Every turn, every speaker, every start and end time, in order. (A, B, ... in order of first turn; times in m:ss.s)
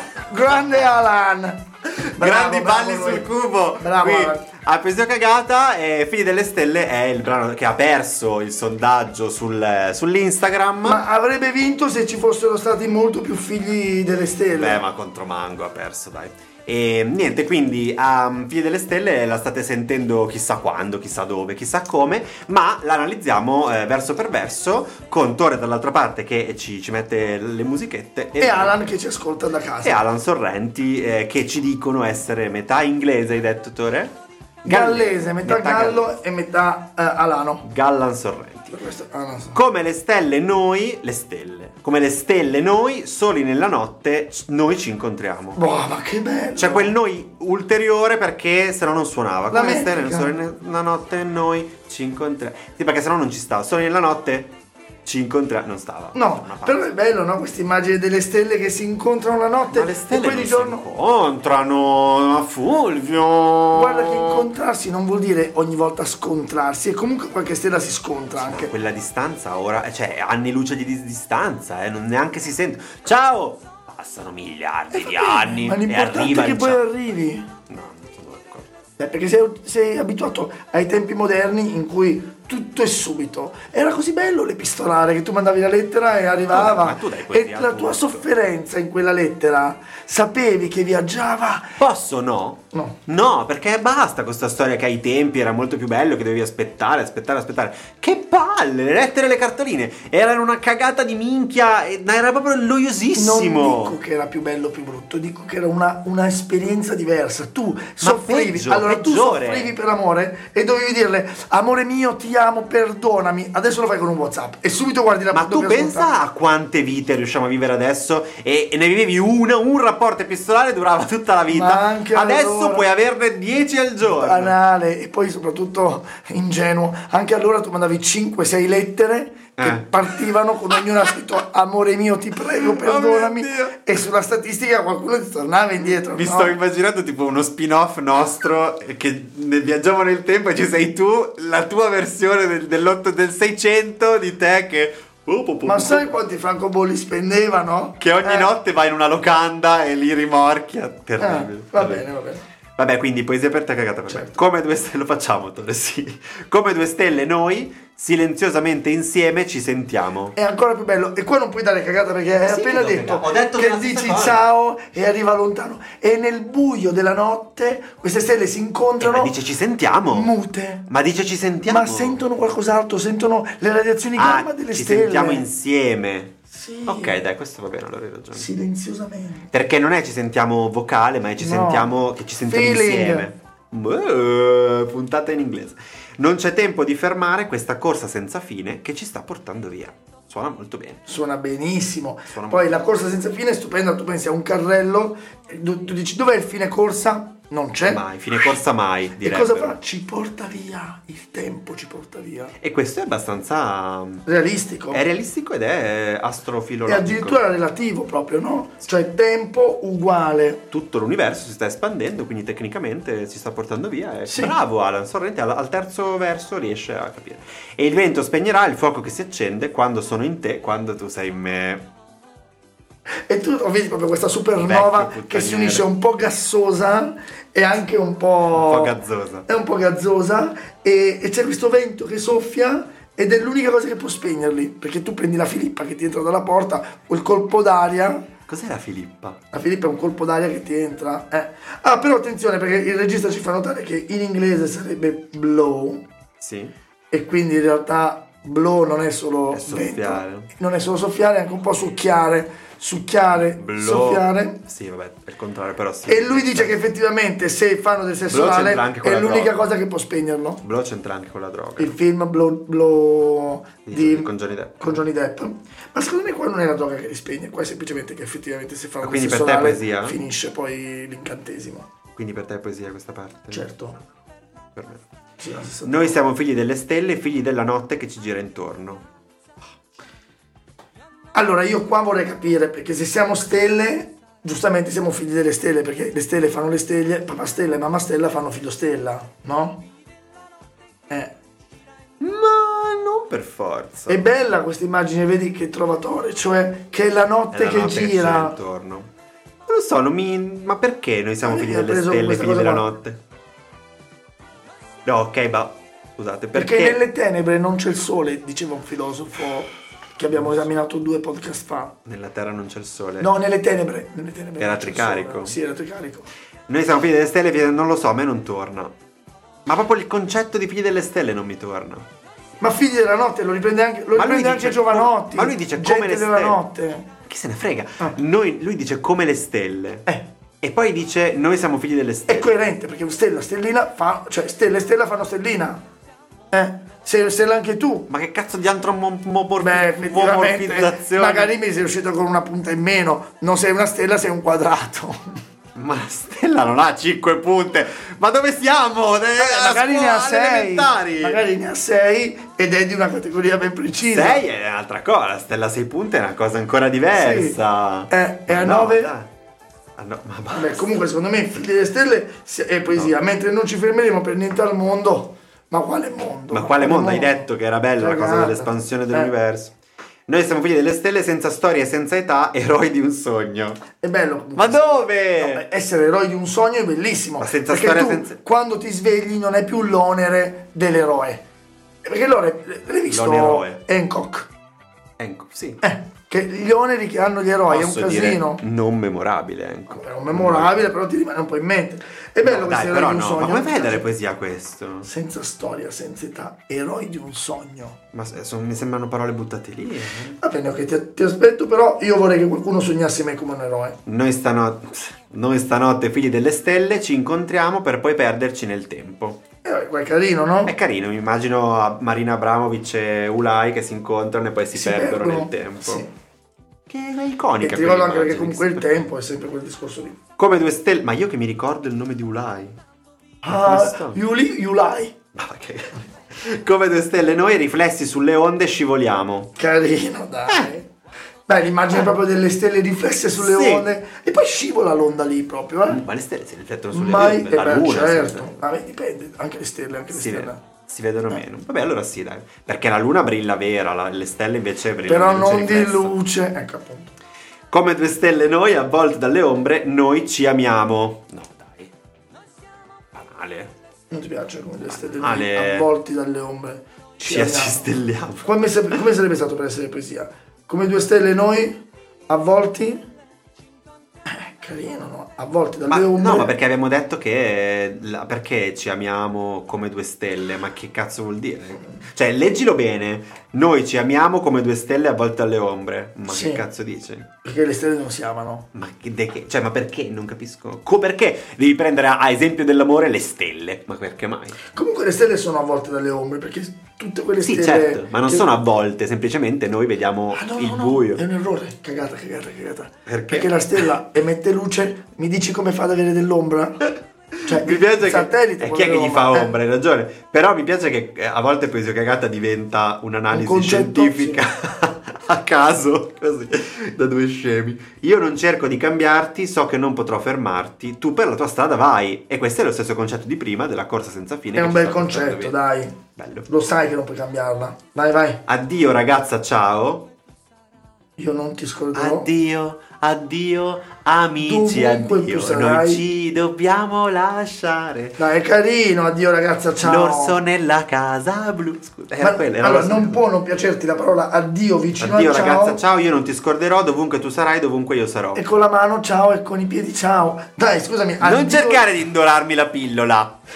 0:00.2-0:01.6 A
0:01.9-0:11.0 B
0:02.2-0:03.2 A
0:03.8-0:04.5 A
0:10.8-0:14.8 A
0:14.5-0:28.8 B
0:28.4-0:30.0 A
0:29.8-0:36.1 B
0:34.6-0:37.6 A
0:37.6-0:38.8 B
0:38.7-0:39.6 A
0:39.5-0:45.6 B
0:45.5-0:47.0 A
0:46.6-0:56.9 B
0:49.5-0:50.3 A
0:56.1-1:00.8 A
0:59.6-1:04.5 B
1:03.7-1:08.7 A
1:08.4-1:16.9 B
1:14.9-1:17.5 A
1:17.7-1:18.7 B
1:19.0-1:31.8 A
1:26.5-1:28.3 B
1:31.8-1:44.0 B
1:32.7-1:33.0 A
1:43.1-1:56.2 A
1:48.0-1:49.7 B
1:55.3-2:04.6 B
2:01.5-2:02.9 A
2:04.0-2:16.5 A
2:09.6-2:10.1 B
2:12.5-2:13.8 B
2:15.8-2:26.2 B
2:25.6-2:28.5 A
2:28.0-2:32.0 B
2:31.2-2:32.4 A
2:32.8-2:40.4 B
2:34.1-2:34.4 A
2:40.3-2:49.3 A
2:42.4-2:44.4 B
2:49.0-2:50.3 B
2:50.1-2:50.9 A
2:50.9-2:52.2 B
2:51.6-2:55.4 A
2:54.1-2:58.5 B
2:56.5-2:57.2 A
2:58.3-2:59.5 A
2:59.5-3:11.0 B
3:01.4-3:03.3 A
3:11.0-3:18.5 A
3:12.3-3:12.8 B
3:17.8-3:19.8 B
3:19.2-3:22.5 A
3:22.6-3:24.2 B
3:24.2-3:25.0 A
3:24.9-3:27.4 B
3:26.8-3:30.6 A
3:30.7-3:41.8 B
3:34.3-3:34.5 A
3:43.2-3:58.3 A
3:44.6-3:45.9 B
3:48.5-3:49.4 B
3:58.5-3:59.4 B
3:59.5-4:06.0 A
4:06.4-4:06.7 B
4:07.1-4:14.6 A
4:09.5-4:10.5 B
4:13.4-4:16.8 B
4:16.0-4:20.6 A
4:18.3-4:19.6 B
4:20.6-4:22.0 B
4:21.8-4:31.9 A
4:23.8-4:25.0 B
4:29.0-4:30.2 B
4:32.1-4:33.7 B
4:33.5-4:34.0 A
4:34.7-4:35.0 B
4:35.4-4:36.2 A
4:35.8-4:39.0 B
4:41.3-4:49.9 A
4:51.1-4:51.3 A
4:52.2-4:54.2 B
4:54.1-4:58.6 A
4:57.5-4:59.1 B
4:59.7-5:03.2 B
5:01.4-5:02.9 A
5:05.0-5:07.0 B
5:06.5-5:12.0 A
5:12.0-5:13.3 B
5:13.2-5:16.3 A
5:14.6-5:15.6 B
5:16.7-5:18.9 B
5:19.6-5:22.1 B
5:22.6-5:27.1 A
5:24.1-5:26.6 B
5:27.3-5:30.0 B
5:30.6-5:32.5 B
5:32.3-5:35.8 A
5:36.5-5:38.1 A
5:38.1-5:41.5 B
5:39.6-5:45.2 A
5:45.7-5:51.4 B
5:49.4-5:54.4 A
5:54.0-5:59.3 B
5:57.1-5:57.6 A
5:58.1-5:59.1 A
6:00.0-6:00.9 B
6:00.5-6:07.5 A
6:06.5-6:09.7 B
6:08.0-6:09.3 A
6:10.3-6:13.8 B
6:14.0-6:21.4 A
6:14.6-6:15.7 B
6:17.4-6:18.4 B
6:22.0-6:24.5 A
6:23.1-6:23.8 B
6:25.2-6:25.8 B
6:25.8-6:28.6 A
6:27.7-6:30.9 B
6:29.9-6:34.0 A
6:32.4-6:35.1 B
6:35.0-6:38.0 A
6:38.1-6:40.4 B
6:40.4-6:44.0 A
6:44.0-6:49.4 B
6:49.6-6:50.7 A
6:50.6-6:56.0 B
6:54.7-6:56.1 A
6:56.9-6:59.1 B
6:57.6-7:00.2 A
7:00.4-7:02.8 B
7:03.4-7:05.1 A
7:03.4-7:04.2 B
7:05.3-7:09.5 B
7:09.6-7:10.9 A
7:11.5-7:16.0 A
7:13.3-7:13.9 B
7:15.9-7:18.5 B
7:16.9-7:20.6 A
7:20.1-7:26.2 B
7:25.1-7:27.1 A
7:27.7-7:31.9 B
7:33.1-7:33.7 B
7:34.1-7:37.9 A
7:34.9-7:35.9 B
7:37.2-7:38.5 B
7:38.4-7:43.0 A
7:44.2-7:46.5 A
7:45.9-7:57.3 B
7:56.3-7:56.6 A
7:57.4-7:58.7 A
7:58.7-8:04.6 B
8:04.7-8:08.5 A
8:07.4-8:11.2 B
8:10.3-8:19.5 A
8:13.0-8:13.8 B
8:17.5-8:35.6 B
8:23.3-8:24.4 A
8:34.5-8:38.4 A
8:36.2-8:36.5 B
8:38.5-8:40.1 B
8:41.2-8:42.3 A
8:41.9-8:48.2 B
8:44.4-8:46.0 A
8:48.2-8:50.4 A
8:49.8-8:53.2 B
8:52.2-8:55.8 A
8:55.0-8:58.4 B
8:58.3-9:01.8 A
9:01.2-9:03.3 B